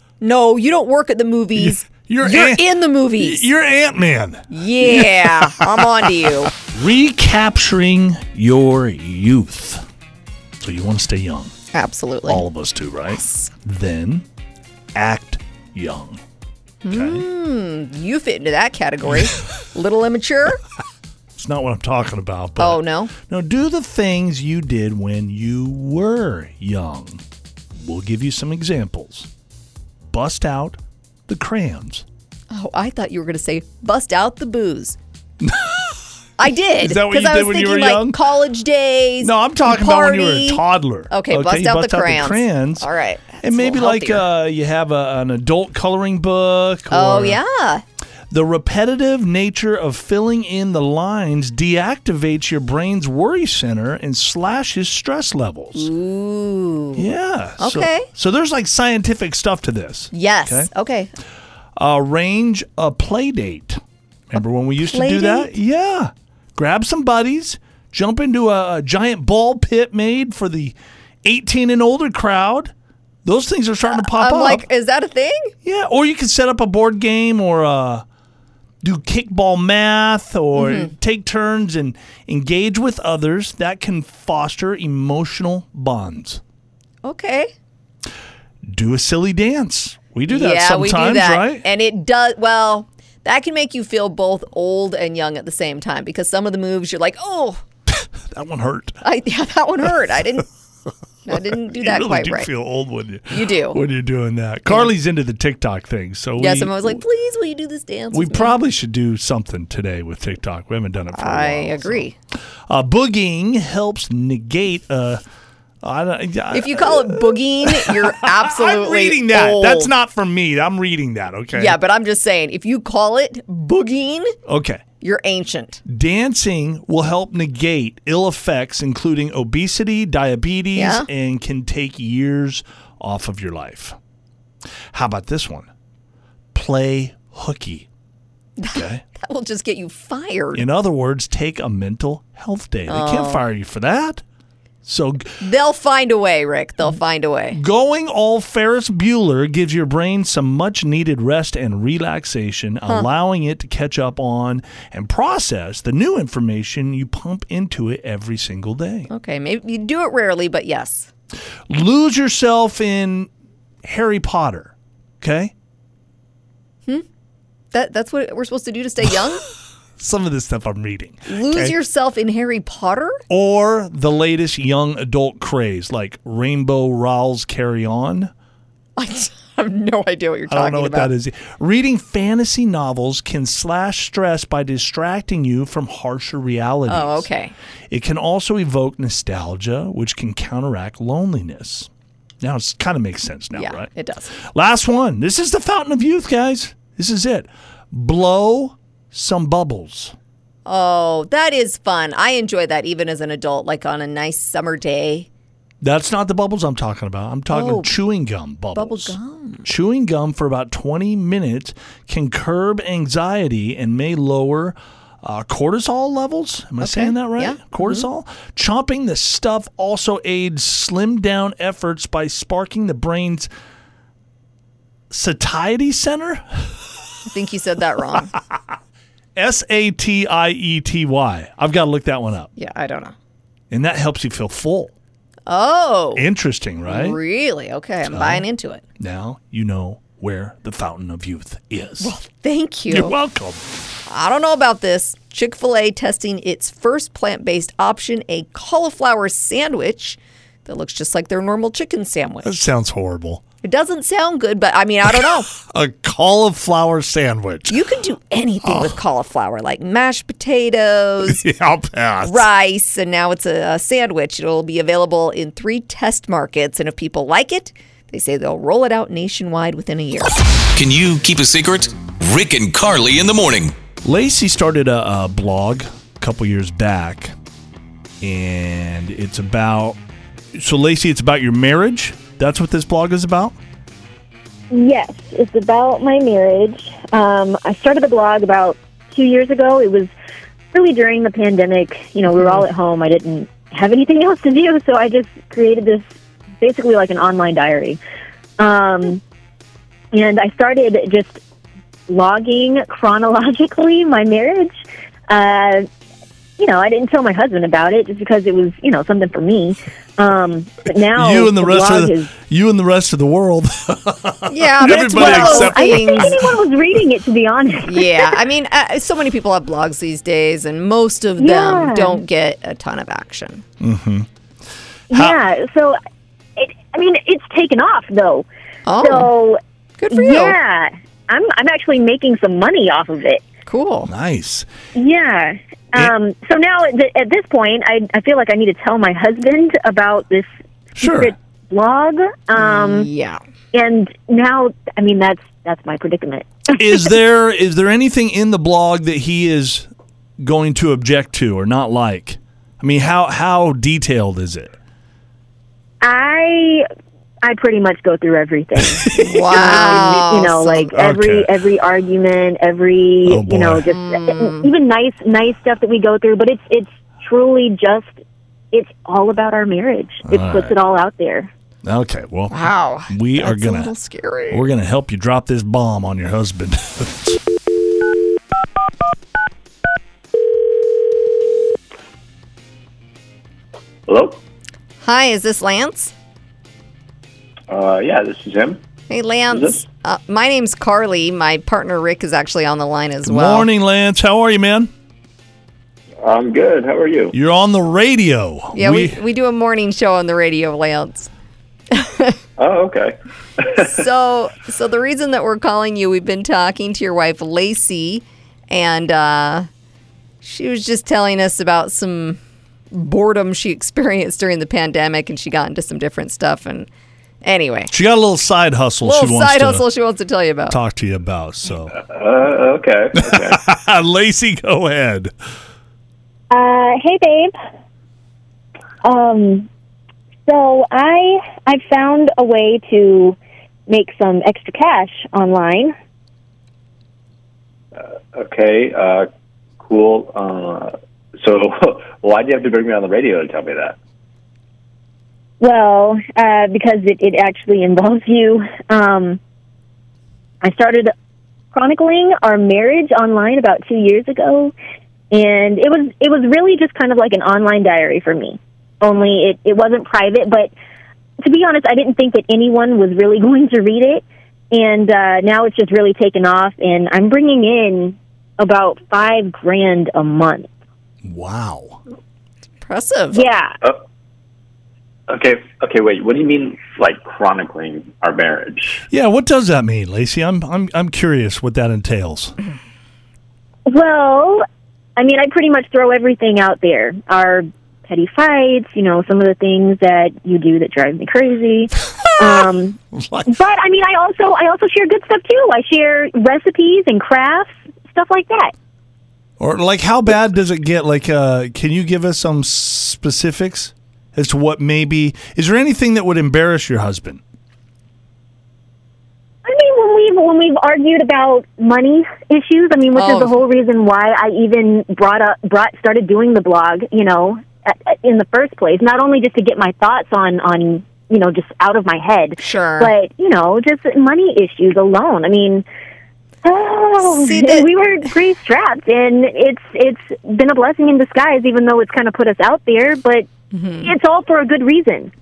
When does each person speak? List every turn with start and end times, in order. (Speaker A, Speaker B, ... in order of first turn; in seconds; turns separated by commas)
Speaker A: 0.2-3.5, Speaker B: 1.6-6.1, Speaker A: 4.5-6.5, Speaker B: 6.6-9.8, Speaker B: 10.6-11.5, Speaker A: 11.7-12.4, Speaker B: 12.3-14.3, Speaker B: 14.9-16.2, Speaker A: 16.8-20.6, Speaker B: 16.9-17.2, Speaker B: 21.4-27.2, Speaker A: 22.6-23.1, Speaker B: 27.8-29.3, Speaker B: 30.1-32.0, Speaker A: 32.5-35.0, Speaker B: 35.4-36.0, Speaker A: 36.4-44.3, Speaker B: 36.8-38.2, Speaker B: 39.2-42.9, Speaker B: 43.4-47.4, Speaker A: 46.9-47.8, Speaker B: 48.3-55.9, Speaker A: 55.8-58.1, Speaker B: 57.0-60.7, Speaker A: 60.1-61.1, Speaker B: 61.8-72.7, Speaker A: 64.8-65.5, Speaker B: 73.2-74.7, Speaker A: 73.9-75.5, Speaker B: 75.6-78.0, Speaker B: 78.8-86.4, Speaker A: 80.6-80.9, Speaker A: 87.0-87.5, Speaker B: 88.7-91.7, Speaker A: 90.3-97.6, Speaker B: 97.9-99.0, Speaker A: 99.0-100.5, Speaker A: 101.3-102.5, Speaker B: 101.3-107.0, Speaker A: 103.3-103.8, Speaker A: 106.4-108.6, Speaker B: 108.1-112.1, Speaker A: 111.1-112.2, Speaker B: 112.7-115.2, Speaker B: 115.8-121.8, Speaker A: 116.5-119.9, Speaker A: 121.5-124.4, Speaker B: 124.5-124.8, Speaker A: 125.0-125.8, Speaker B: 125.9-134.0, Speaker A: 130.8-131.1, Speaker B: 134.9-135.7, Speaker B: 136.5-137.9, Speaker A: 138.6-140.6, Speaker B: 138.7-139.0, Speaker B: 140.5-144.2, Speaker A: 142.9-143.4, Speaker B: 144.8-145.4, Speaker A: 145.4-147.6, Speaker B: 147.5-159.1, Speaker A: 159.1-161.1, Speaker B: 161.7-163.3, Speaker B: 163.8-165.5, Speaker A: 167.7-169.4, Speaker B: 170.0-171.8, Speaker A: 171.3-173.2, Speaker B: 173.3-178.3, Speaker A: 179.0-181.1, Speaker B: 180.5-187.3, Speaker A: 186.9-187.5, Speaker B: 187.9-191.9, Speaker B: 192.4-200.2, Speaker A: 193.6-194.4, Speaker A: 200.7-205.3, Speaker B: 205.8-223.5, Speaker A: 207.5-208.0, Speaker A: 208.8-209.7, Speaker A: 216.8-218.1, Speaker B: 225.1-226.8, Speaker A: 227.3-228.3, Speaker B: 229.3-232.5, Speaker A: 232.6-233.2, Speaker B: 233.7-234.9, Speaker A: 235.5-236.3, Speaker B: 236.2-237.2, Speaker A: 236.9-238.8, Speaker B: 238.1-238.5, Speaker B: 239.0-242.1, Speaker A: 242.0-243.2, Speaker B: 242.9-243.6, Speaker A: 244.1-252.6, Speaker B: 252.4-253.4, Speaker A: 253.6-255.5, Speaker B: 255.6-257.8, Speaker A: 257.7-261.4, Speaker B: 258.6-258.9, Speaker B: 261.2-262.5, Speaker A: 262.2-270.3, Speaker C: 270.7-273.8, Speaker B: 274.0-277.4, Speaker B: 278.2-280.0, Speaker B: 280.6-283.6, Speaker D: 284.7-290.1, Speaker D: 290.7-296.1, Speaker D: 296.6-298.0, Speaker D: 298.6-299.2, Speaker D: 300.1-301.4, Speaker D: 302.1-305.9, Speaker D: 306.6-312.3, Speaker B: 311.1-316.6, Speaker A: 314.5-316.4, Speaker D: 314.8-318.4, Speaker A: 317.9-323.6, Speaker D: 321.4-322.2, Speaker B: 323.8-324.3, Speaker B: 325.1-325.4, Speaker D: 325.1-326.0, Speaker D: 326.6-328.5, Speaker A: 328.9-329.3, Speaker D: 329.0-329.6, Speaker A: 330.0-330.6, Speaker D: 330.1-333.5, Speaker A: 333.7-334.1, Speaker B: 334.1-334.7, Speaker D: 334.9-343.1, Speaker B: 341.0-341.3, Speaker A: 342.6-343.4, Speaker D: 343.7-346.8, Speaker B: 346.7-349.9, Speaker B: 350.4-354.8, Speaker D: 356.0-356.9, Speaker D: 357.4-368.2, Speaker B: 359.0-360.1, Speaker A: 359.1-360.9, Speaker B: 360.9-361.5, Speaker B: 363.3-363.9, Speaker A: 363.9-364.7, Speaker D: 368.7-371.5, Speaker B: 370.3-370.8, Speaker B: 371.8-373.9, Speaker A: 372.5-374.7, Speaker B: 374.5-377.4, Speaker E: 384.1-384.4, Speaker A: 385.0-386.1, Speaker E: 387.7-388.8, Speaker A: 389.1-393.7, Speaker E: 389.5-389.9, Speaker B: 393.2-394.9, Speaker E: 396.2-397.3, Speaker B: 397.3-399.2, Speaker A: 398.7-401.3, Speaker A: 401.9-402.4, Speaker E: 402.6-404.0, Speaker A: 403.8-409.7, Speaker A: 410.4-412.4, Speaker A: 412.9-416.9, Speaker A: 417.4-417.9, Speaker B: 417.9-419.9, Speaker A: 419.0-420.8, Speaker B: 420.7-422.0, Speaker E: 421.9-423.6, Speaker B: 423.1-425.3, Speaker D: 426.5-427.5, Speaker D: 429.0-429.7, Speaker D: 430.5-435.9, Speaker E: 437.9-439.3, Speaker E: 439.8-444.0, Speaker D: 445.6-449.4, Speaker D: 450.6-451.1, Speaker D: 451.7-454.7, Speaker D: 455.3-460.7, Speaker D: 461.4-470.7, Speaker B: 471.2-472.0, Speaker A: 472.8-473.5, Speaker D: 473.3-473.7, Speaker E: 475.3-479.0, Speaker B: 479.1-482.6, Speaker D: 483.9-484.6, Speaker D: 485.2-498.7, Speaker B: 493.1-493.6, Speaker B: 499.6-507.4, Speaker D: 509.6-525.9, Speaker A: 513.1-513.6, Speaker A: 522.6-523.1, Speaker D: 526.6-533.5, Speaker A: 527.2-527.9, Speaker A: 533.7-534.1, Speaker D: 534.0-535.3